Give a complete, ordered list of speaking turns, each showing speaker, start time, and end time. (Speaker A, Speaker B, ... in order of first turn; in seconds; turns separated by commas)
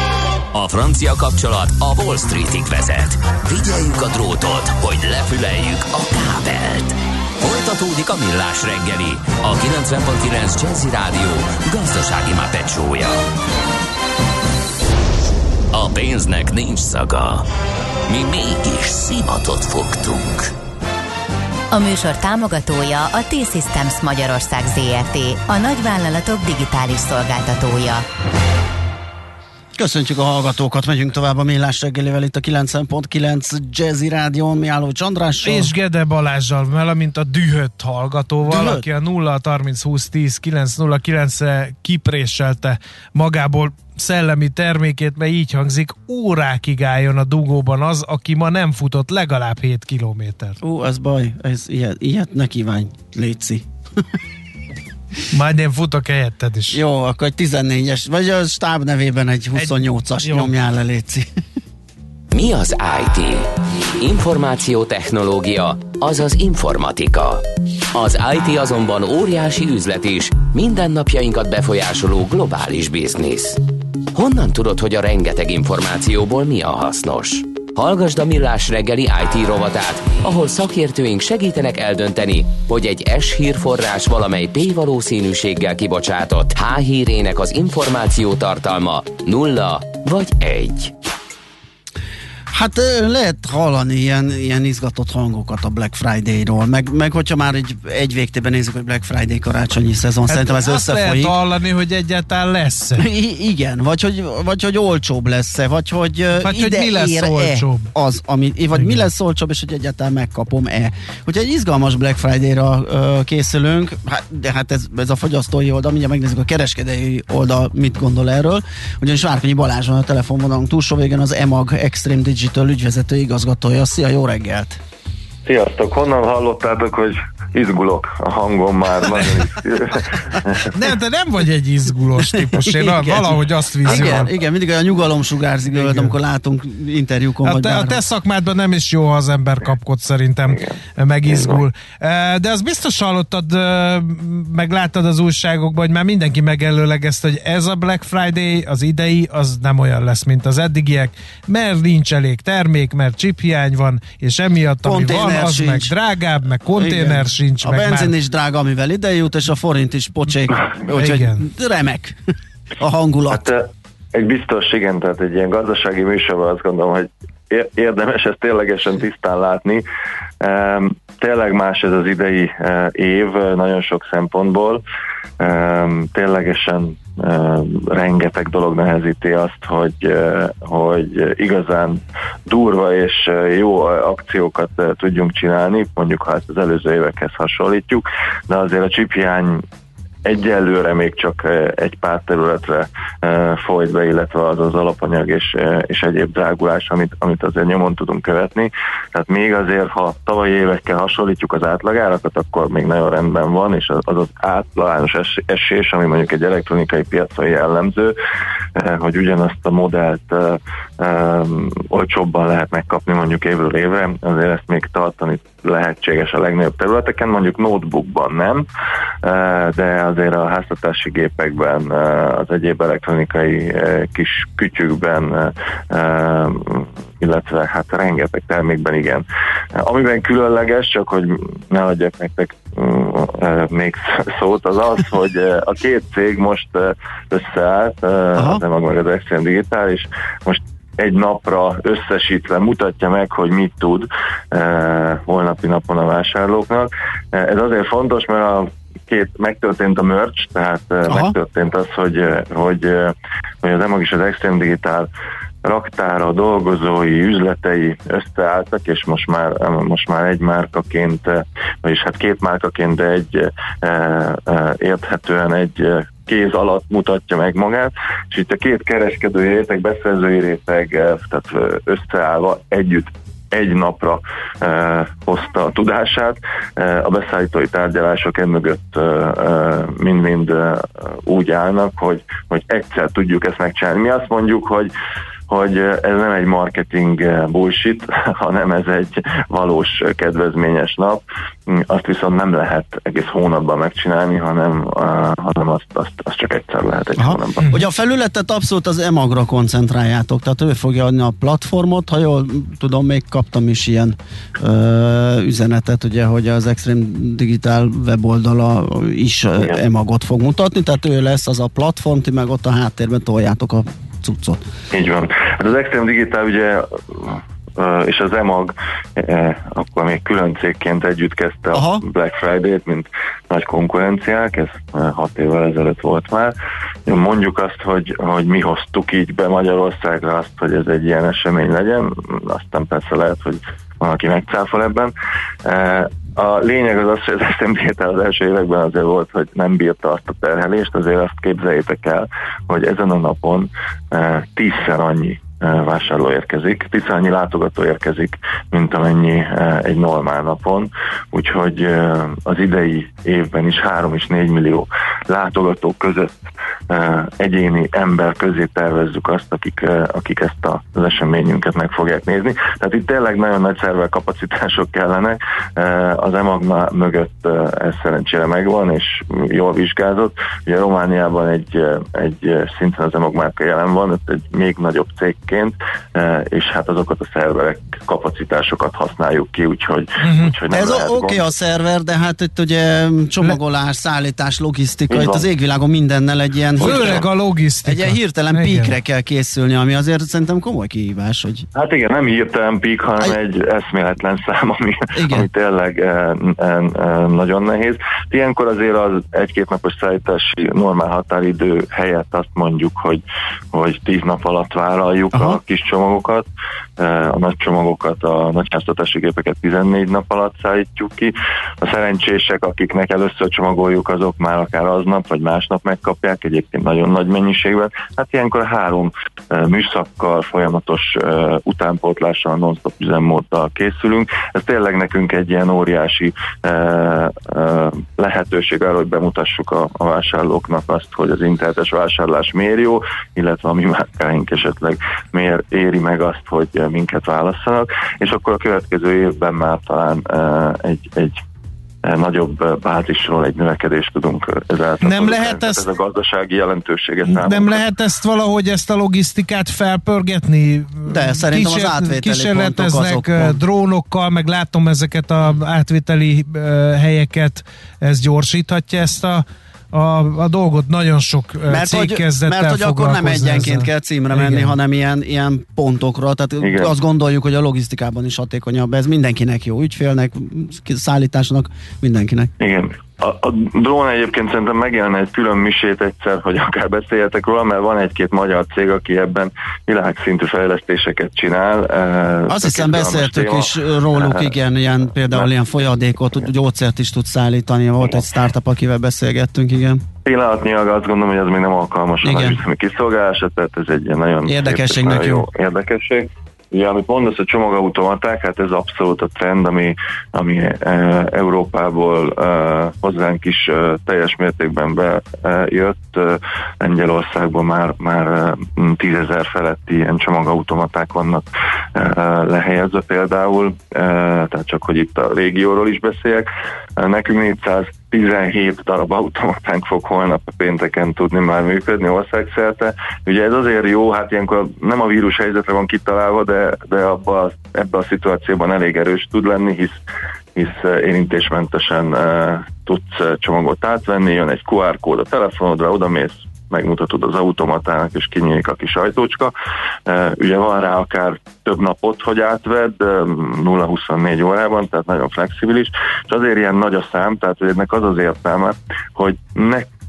Speaker A: 0.5-13.2, Speaker A: 15.7-17.4, Speaker A: 18.1-20.5, Speaker B: 21.7-28.1, Speaker C: 29.8-35.7, Speaker D: 35.4-50.6, Speaker C: 38.5-38.9, Speaker C: 50.6-53.6, Speaker D: 55.3-56.8, Speaker C: 56.7-61.3, Speaker D: 59.6-60.5, Speaker A: 62.3-63.5, Speaker A: 64.0-67.4, Speaker A: 67.9-73.6, Speaker A: 74.1-90.9, Speaker C: 92.5-101.3, Speaker D: 100.3-103.1, Speaker C: 103.0-124.8, Speaker D: 106.4-107.9, Speaker D: 108.8-109.0, Speaker E: 125.5-130.7, Speaker D: 129.1-129.4, Speaker D: 130.7-134.3, Speaker C: 132.3-138.0, Speaker E: 133.9-134.3, Speaker D: 135.8-136.1, Speaker D: 137.4-158.1, Speaker E: 140.5-140.8, Speaker E: 141.3-141.6, Speaker C: 154.8-155.9, Speaker C: 156.6-162.2, Speaker D: 160.9-161.5, Speaker C: 162.8-163.4, Speaker E: 163.3-169.8, Speaker E: 170.4-174.8, Speaker E: 175.4-189.6, Speaker E: 190.2-208.2, Speaker E: 208.8-218.7, Speaker E: 219.2-255.1, Speaker C: 238.4-238.6, Speaker C: 251.1-251.3, Speaker E: 255.6-284.9, Speaker E: 285.5-297.8, Speaker C: 297.2-314.6, Speaker E: 314.9-326.5, Speaker C: 321.7-322.0, Speaker E: 327.1-335.1, Speaker E: 335.6-381.4, Speaker D: 380.2-380.6, Speaker C: 380.7-387.2, Speaker E: 385.1-385.5, Speaker D: 386.8-388.9, Speaker E: 386.8-387.3, Speaker C: 387.9-391.7, Speaker E: 391.8-406.5, Speaker C: 395.2-395.5, Speaker C: 405.3-405.6, Speaker E: 407.0-441.4, Speaker E: 442.0-447.9, Speaker D: 445.0-445.9, Speaker D: 447.3-464.8, Speaker C: 451.1-453.6, Speaker C: 461.7-472.5, Speaker E: 466.6-466.9, Speaker E: 472.6-484.6, Speaker C: 482.5-490.0, Speaker E: 490.2-530.0, Speaker C: 492.2-492.6, Speaker C: 494.5-495.5, Speaker E: 530.5-539.5, Speaker E: 540.1-549.9